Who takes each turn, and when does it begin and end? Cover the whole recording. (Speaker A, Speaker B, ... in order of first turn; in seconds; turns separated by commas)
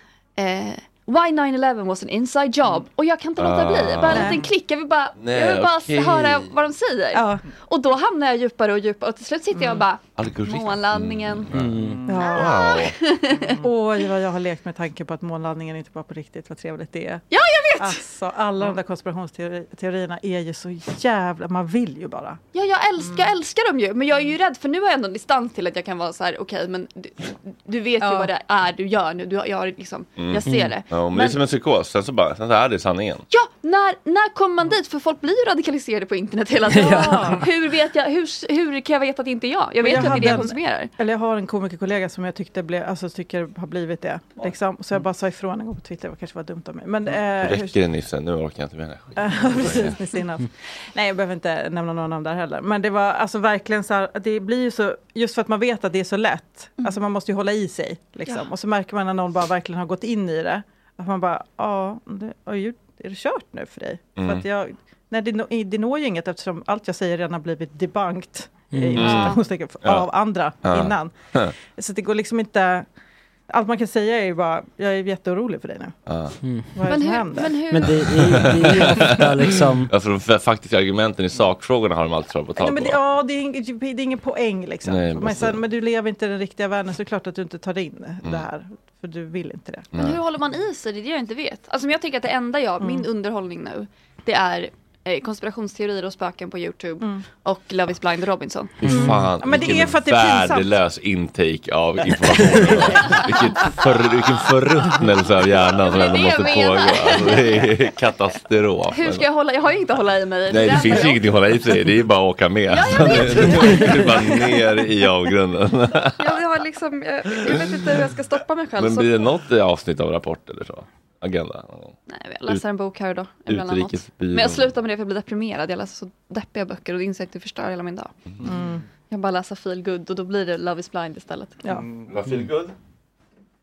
Speaker A: 0.4-11.5, Speaker B: 3.4-4.4, Speaker C: 4.1-4.5, Speaker B: 5.2-6.5, Speaker C: 7.1-7.4, Speaker B: 10.2-13.0, Speaker D: 11.5-12.1, Speaker C: 12.1-12.5, Speaker A: 12.1-13.6, Speaker C: 13.6-17.2, Speaker A: 17.3-18.0, Speaker C: 17.8-22.4, Speaker A: 22.5-31.3, Speaker C: 28.0-28.3, Speaker B: 30.2-33.3, Speaker D: 30.5-30.8, Speaker A: 33.3-40.9, Speaker D: 36.7-37.4, Speaker C: 36.9-37.4, Speaker C: 39.8-47.8, Speaker B: 47.4-50.0, Speaker C: 49.2-71.1, Speaker B: 64.2-64.4, Speaker D: 68.7-69.1, Speaker B: 69.0-69.3, Speaker A: 69.0-69.4, Speaker B: 70.7-71.5, Speaker C: 71.7-72.9, Speaker C: 73.5-76.0, Speaker B: 76.1-76.4, Speaker D: 76.4-76.8, Speaker C: 76.8-77.6, Speaker A: 76.9-78.1, Speaker D: 77.7-79.9, Speaker B: 78.0-83.0, Speaker C: 82.6-89.9, Speaker B: 84.8-85.6, Speaker B: 89.9-90.2, Speaker A: 90.0-98.8, Speaker C: 92.8-93.1, Speaker B: 98.8-109.2, Speaker C: 98.8-100.8, Speaker A: 102.9-103.3, Speaker A: 105.8-107.7, Speaker A: 108.9-111.2, Speaker B: 110.5-116.4, Speaker A: 112.7-114.8, Speaker A: 116.2-119.2, Speaker B: 118.8-122.0, Speaker A: 122.1-128.1, Speaker B: 123.5-124.7, Speaker C: 128.4-128.8, Speaker A: 129.1-131.6, Speaker B: 132.1-132.8